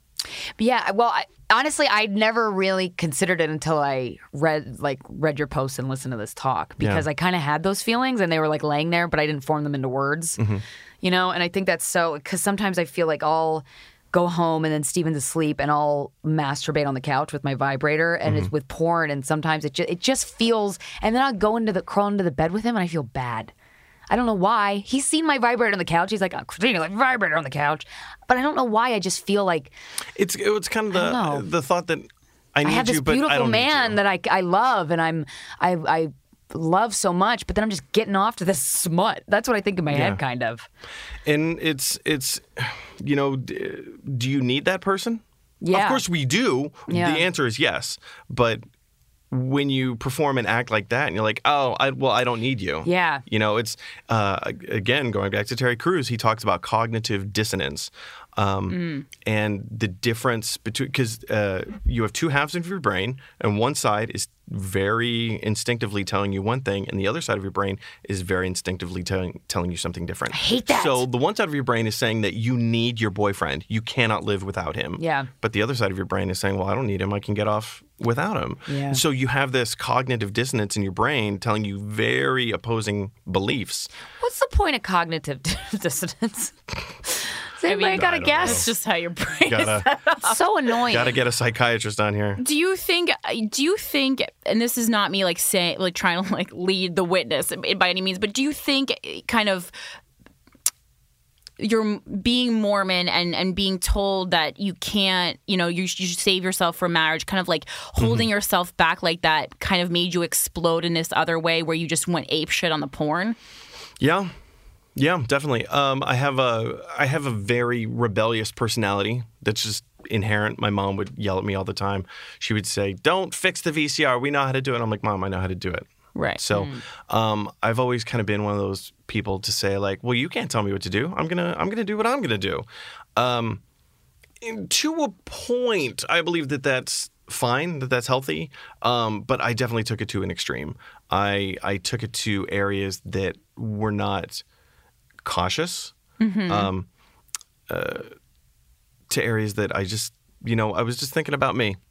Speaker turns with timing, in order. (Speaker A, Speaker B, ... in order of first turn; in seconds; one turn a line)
Speaker A: 0.6-10.4
Speaker B: 6.8-7.0
Speaker B: 10.4-10.6
Speaker A: 11.0-23.5
Speaker B: 18.2-18.5
Speaker A: 24.1-29.7
Speaker B: 30.1-34.0
Speaker A: 30.9-31.5
Speaker A: 32.6-40.6
Speaker B: 39.9-40.2
Speaker B: 41.2-48.6
Speaker A: 45.6-46.0
Speaker A: 46.9-47.2
Speaker B: 49.3-83.9
Speaker A: 52.8-53.2
Speaker C: 58.7-59.0
Speaker A: 70.3-71.0
Speaker A: 75.0-75.3
Speaker A: 78.7-79.0
Speaker A: 84.2-88.7
Speaker C: 87.6-90.4
Speaker B: 87.9-88.7
Speaker B: 89.5-89.9
Speaker A: 90.2-91.1
Speaker B: 90.9-92.4
Speaker C: 92.4-99.7
Speaker C: 101.6-113.4
Speaker B: 108.0-108.3
Speaker B: 114.0-114.3
Speaker B: 115.0-133.6
Speaker C: 126.1-126.4
Speaker A: 126.5-126.8
Speaker B: 134.4-144.4
Speaker B: 145.2-145.9
Speaker C: 146.2-146.7
Speaker B: 146.5-146.9
Speaker B: 147.7-148.1
Speaker B: 149.1-151.8